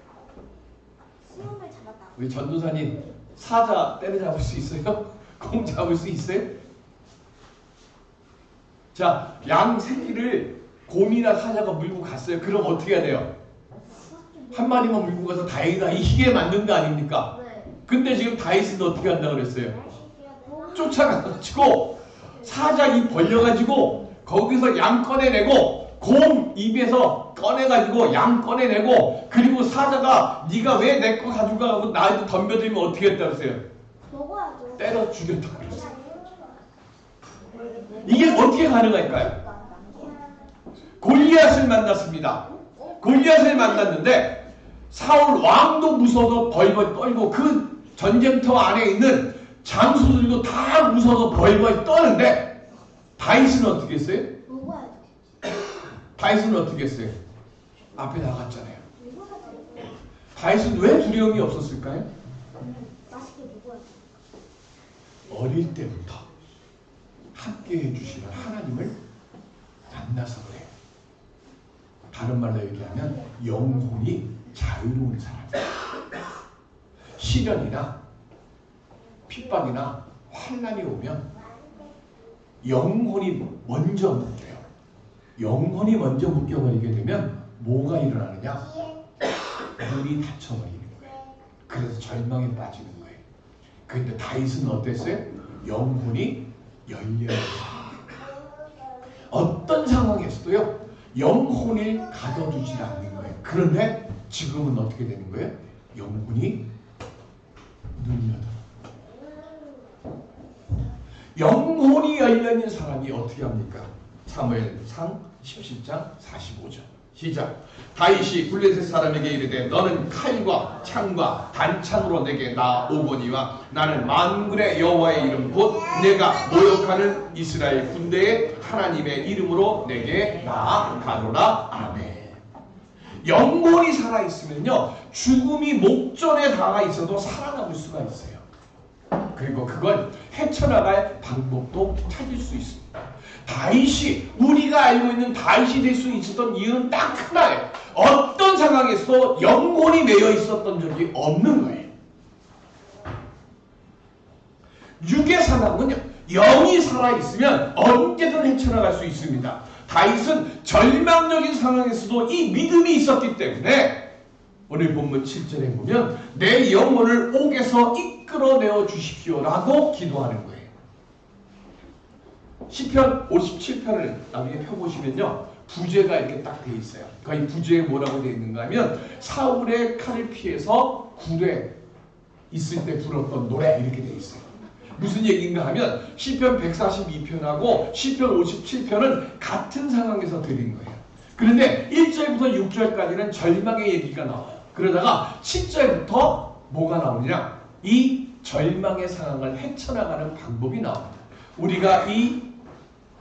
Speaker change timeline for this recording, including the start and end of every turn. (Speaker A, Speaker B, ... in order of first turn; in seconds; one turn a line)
Speaker A: 1.3-2.1
Speaker B: 2.1-6.5
Speaker B: 8.9-13.3
Speaker B: 14.5-19.9
Speaker A: 20.2-20.6
Speaker B: 20.6-33.6
Speaker A: 34.1-34.8
Speaker B: 34.8-36.0
Speaker A: 36.1-36.6
Speaker A: 37.6-38.0
Speaker B: 38.0-39.5
Speaker A: 39.6-40.3
Speaker B: 41.0-52.6
Speaker B: 53.2-54.3
Speaker A: 54.5-55.1
Speaker B: 56.2-57.1
Speaker B: 58.0-58.8
Speaker A: 59.0-59.9
Speaker B: 60.4-62.1
Speaker A: 62.6-63.9
Speaker B: 65.3-66.2
Speaker B: 67.3-69.0
Speaker B: 69.9-70.7
Speaker B: 72.1-75.7
Speaker B: 77.2-78.0
Speaker B: 79.3-81.3
Speaker B: 82.6-84.6
Speaker B: 85.4-88.8
Speaker B: 89.7-93.2
Speaker B: 93.9-98.2
Speaker B: 99.3-106.6
Speaker B: 108.0-108.6
Speaker B: 111.3-132.4
Speaker B: 133.2-138.4
Speaker B: 139.3-151.9
Speaker B: 155.0-164.1
Speaker B: 164.7-170.7
Speaker B: 172.7-181.8
Speaker B: 182.5-202.5